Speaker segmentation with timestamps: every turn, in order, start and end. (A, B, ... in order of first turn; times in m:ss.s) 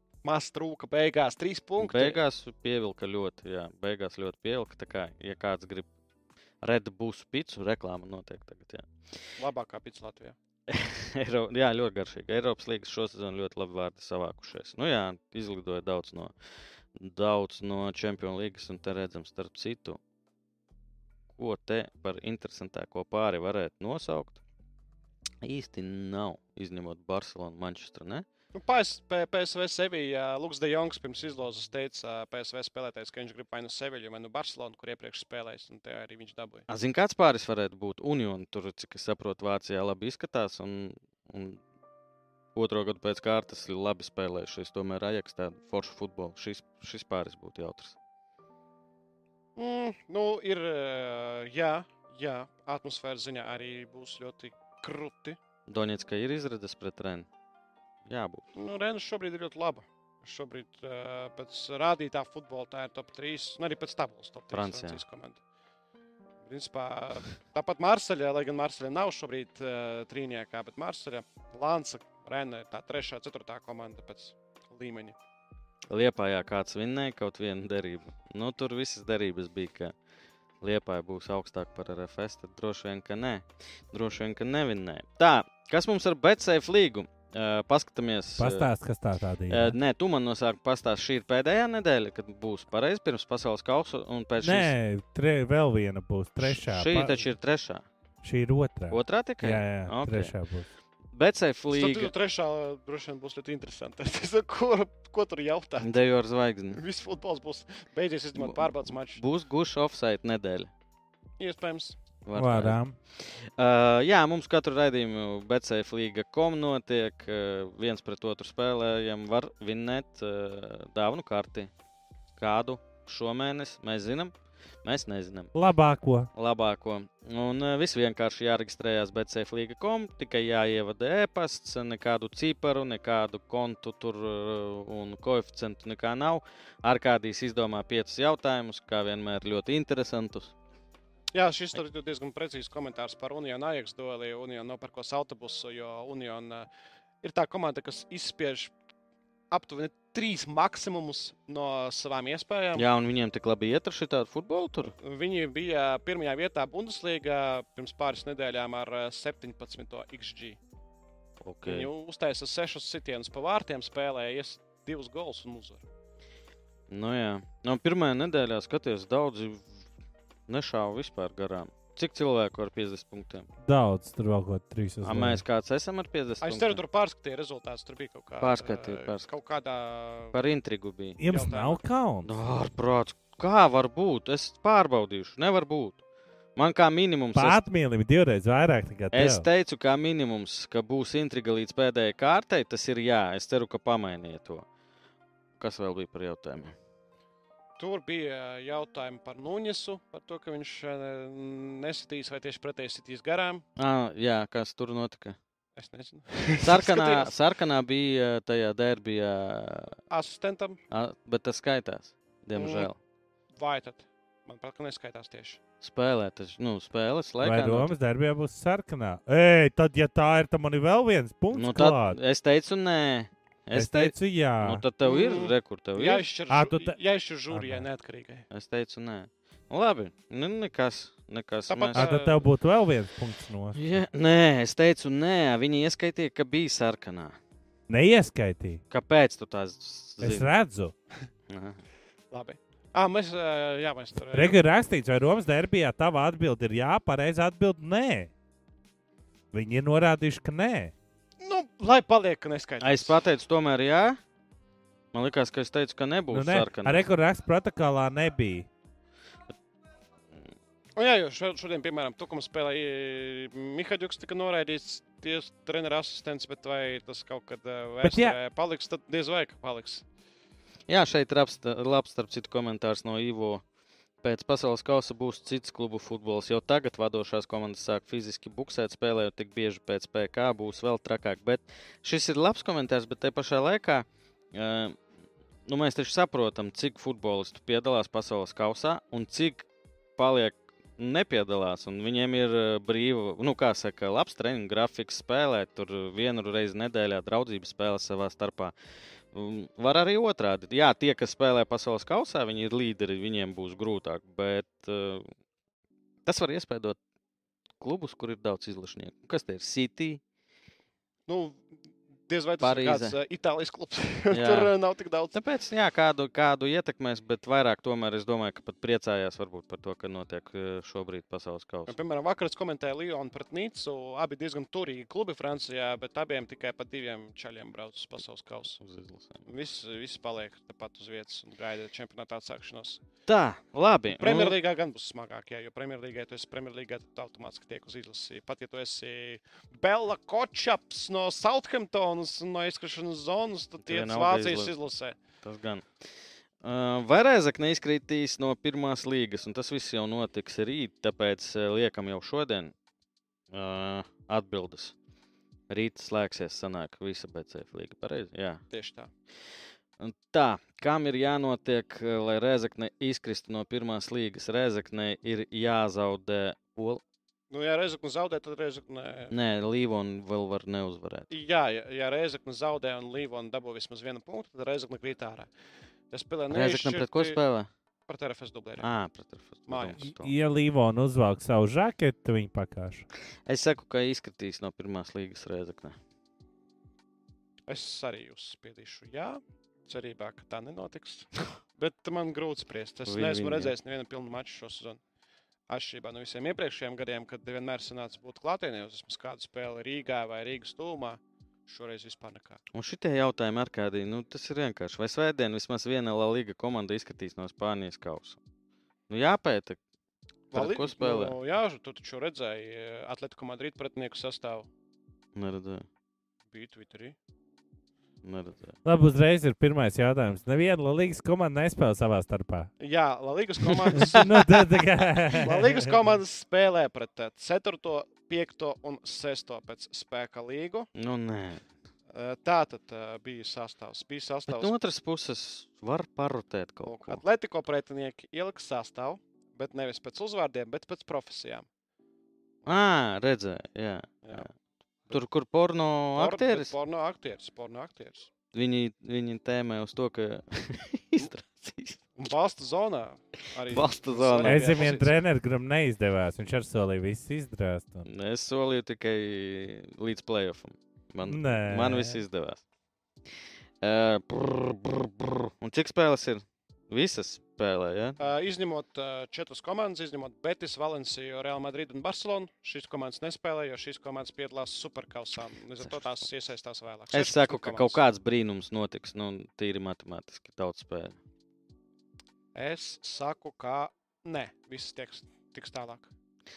0:00.2-0:02.2 A
0:01.8-0:05.9 B
0:06.6-0:08.9 B
0:09.4-0:10.4 A
0:10.7-0:16.3 B
0:17.0-0:20.0 B
0:21.3-0:24.4 B
0:25.4-0:28.2 B
0:28.5-0:36.7 A
0:36.7-0:41.6 B
0:42.6-0:48.0 B
0:49.6-0:55.4 A
0:55.7-0:57.3 B
0:58.1-0:58.4 B
0:58.6-1:05.4 A
1:04.5-1:05.0 B
1:06.4-1:15.2 A
1:15.9-1:20.0 B
1:20.6-1:28.7 B
1:28.4-1:29.8 C
1:29.5-1:34.7 B
1:34.4-1:37.2 C
1:36.4-1:37.8 B
1:38.2-1:40.7 C
1:38.9-1:40.4 B
1:41.1-1:42.1 B
1:41.7-1:46.0 A
1:45.8-1:46.8 B
1:46.7-1:49.2 A
1:48.4-1:50.7 B
1:51.4-1:52.0 A
1:52.2-2:01.7 B
1:52.4-1:53.0 C
2:02.4-2:05.6 B
2:05.6-2:06.3 C
2:06.4-2:20.5 B
2:21.3-2:26.7 A
2:27.2-2:28.7 A
2:29.5-2:32.9 A
2:32.8-2:35.0 B
2:34.9-2:40.6 A
2:41.4-2:41.9 B
2:41.6-2:45.8 A
2:46.9-2:49.7 B
2:50.5-2:53.5 B
2:53.6-2:55.4 C
2:55.0-2:56.8 B
2:56.4-3:00.4 A
2:58.4-2:59.3 B
3:00.3-3:01.2 B
3:01.2-3:02.3 C
3:01.2-3:01.8 A
3:02.2-3:06.0 B
3:06.6-3:07.6 B
3:07.4-3:09.5 C
3:09.1-3:14.6 B
3:15.6-3:16.7 B
3:17.8-3:23.6 A
3:23.8-3:25.4 B
3:25.8-3:27.3 A
3:26.6-3:30.0 B
3:30.1-3:30.8 A
3:30.9-3:33.0 B
3:32.6-3:32.9 A
3:33.6-3:35.6 A
3:35.8-3:37.9 B
3:37.4-3:42.2 C
3:41.5-3:46.3 B
3:43.8-3:44.8 C
3:45.0-3:48.5 A
3:46.5-3:47.0 C
3:47.5-3:47.9 C
3:48.5-3:52.1 B
3:51.7-3:52.5 A
3:52.0-3:53.8 C
3:53.7-3:57.4 B
3:57.9-3:58.8 C
3:58.9-4:00.5 B
4:00.2-4:00.9 C
4:01.5-4:01.8 B
4:02.3-4:04.6 A
4:04.3-4:08.3 C
4:09.5-4:10.9 C
4:11.4-4:13.2 A
4:12.8-4:14.2 B
4:15.1-4:17.1 B
4:16.3-4:18.7 C
4:21.0-4:30.0 A
4:28.0-4:28.4 C
4:30.9-4:33.6 B
4:34.2-4:45.0 B
4:45.7-4:49.7 B
4:50.2-4:58.7 B
4:59.3-5:05.3 B
5:06.3-5:07.0 B
5:07.8-5:10.2 B
5:11.3-5:15.4 A
5:12.6-5:13.2 B
5:14.3-5:14.7 B
5:15.3-5:21.9 B
5:21.9-5:28.8 A
5:28.8-5:29.4 B
5:29.5-5:33.0 A
5:33.3-5:34.6 B
5:34.1-5:45.2 A
5:43.8-5:44.7 B
5:45.4-5:45.9 B
5:46.6-5:52.7 B
5:53.5-5:55.0 B
5:55.7-5:58.6 B
5:58.7-5:59.1 A
6:00.0-6:07.0 B
6:07.5-6:09.3 A
6:09.3-6:11.3 B
6:11.3-6:15.5 A
6:16.1-6:17.4 A
6:16.5-6:17.7 B
6:18.1-6:18.9 A
6:18.8-6:20.3 B
6:19.7-6:20.0 A
6:20.0-6:23.0 C
6:23.5-6:26.0 B
6:27.7-6:35.0 A
6:33.1-6:33.7 B
6:35.7-6:42.6 A
6:42.7-6:48.4 B
6:49.1-6:49.8 B
6:50.5-6:51.4 B
6:50.5-6:54.7 A
6:55.4-6:55.9 B
6:56.5-6:57.2 A
6:58.2-6:58.8 B
6:58.8-7:02.7 C
7:02.8-7:10.9 A
7:04.1-7:05.9 C
7:11.0-7:11.6 B
7:12.1-7:14.7 A
7:14.5-7:17.2 B
7:16.8-7:21.7 A
7:22.6-7:24.5 B
7:25.1-7:26.7 B
7:26.1-7:28.3 A
7:28.5-7:32.0 B
7:32.2-7:35.1 A
7:33.7-7:35.0 B
7:34.4-7:38.1 C
7:38.0-7:42.6 B
7:41.2-7:42.2 C
7:43.8-7:48.2 B
7:48.2-7:58.0 A
7:57.1-8:01.2 B
8:02.6-8:06.1 A